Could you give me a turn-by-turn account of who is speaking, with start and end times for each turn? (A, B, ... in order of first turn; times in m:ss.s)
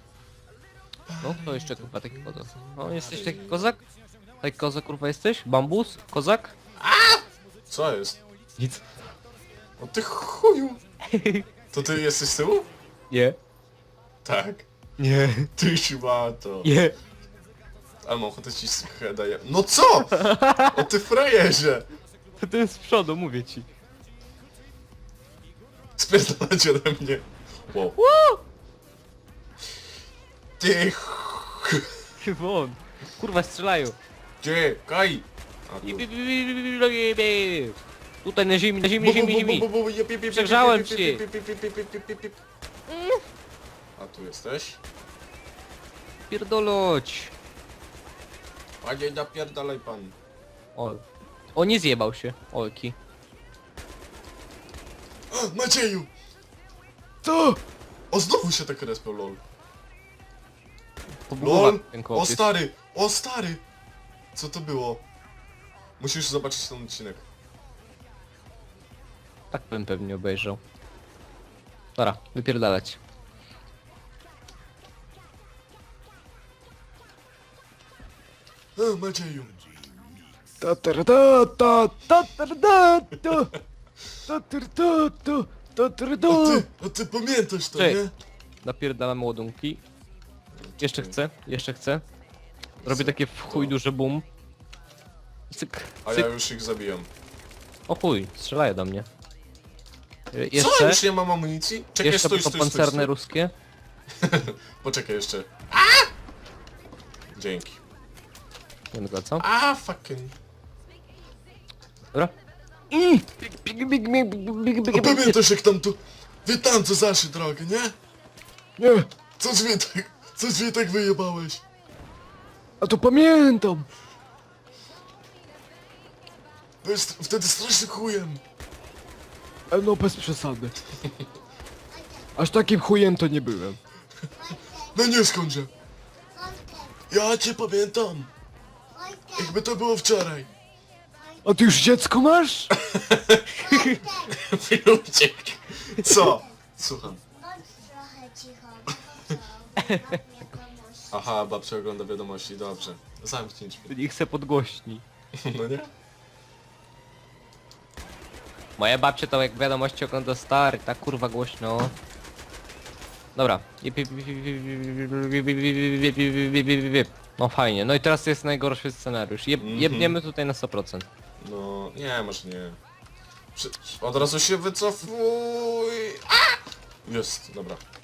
0:01.1-0:03.7 A
0:01.2-0:03.8 B
0:04.4-0:06.5 B
0:06.8-0:08.2 A
0:08.6-0:08.8 B
0:09.8-0:10.8 A
0:11.1-0:11.4 B
0:11.7-0:12.7 A
0:13.1-0:13.4 B
0:14.2-0:14.7 A
0:15.0-0:15.5 B
0:15.6-0:16.7 A
0:16.6-0:17.0 B
0:18.0-0:21.9 A
0:20.1-0:20.8 B
0:22.4-0:23.7 B
0:26.0-0:28.0 A
0:27.9-0:28.4 B
0:30.6-0:31.9 A
0:32.2-0:34.0 B
0:34.4-0:36.1 A
0:35.8-0:39.7 B
0:39.0-0:42.4 A
0:40.3-0:41.2 B
0:42.9-0:43.2 B
0:44.0-0:44.8 A
0:46.3-0:47.3 B
0:48.8-0:50.1 A
0:50.8-0:51.0 B
0:51.5-0:53.0 B
0:55.3-0:56.1 A
0:57.2-0:57.6 C
0:58.1-0:59.4 A
1:01.3-1:02.5 B
1:01.4-1:03.6 A
1:04.3-1:05.0 A
1:06.0-1:07.2 A
1:09.5-1:10.6 B
1:12.0-1:13.0 B
1:18.8-1:19.6 A
1:20.6-1:23.5 C
1:24.3-1:26.6 C
1:26.3-1:28.1 A
1:27.7-1:28.0 B
1:28.6-1:29.8 B
1:30.5-1:31.2 A
1:30.8-1:32.0 B
1:32.8-1:33.7 A
1:32.8-1:34.2 B
1:35.5-1:36.3 B
1:36.0-1:37.1 A
1:37.9-1:39.1 B
1:40.3-1:41.0 B
1:40.5-1:43.1 A
1:42.0-1:43.5 B
1:44.2-1:46.1 A
1:47.3-1:47.8 A
1:48.9-1:49.4 B
1:49.4-1:50.3 A
1:52.9-1:55.3 C
1:54.9-1:57.9 A
1:58.8-1:59.1 C
1:59.4-2:01.6 A
2:02.8-2:03.9 C
2:06.8-2:08.4 A
2:09.7-2:10.8 C
2:11.9-2:12.3 D
2:12.4-2:13.8 C
2:14.4-2:14.9 D
2:14.9-2:15.7 A
2:16.3-2:17.0 D
2:17.1-2:18.3 A
2:18.9-2:19.5 D
2:19.3-2:20.5 A
2:21.4-2:22.7 C
2:22.8-2:23.7 A
2:23.6-2:24.3 D
2:23.7-2:24.0 B
2:24.3-2:27.2 A
2:27.4-2:31.1 D
2:29.8-2:30.2 B
2:31.1-2:33.9 A
2:33.9-2:35.0 B
2:35.4-2:35.9 A
2:38.8-2:41.9 B
2:43.3-2:51.0 B
2:49.6-2:50.2 A
2:51.4-2:52.8 A
2:53.5-2:57.8 A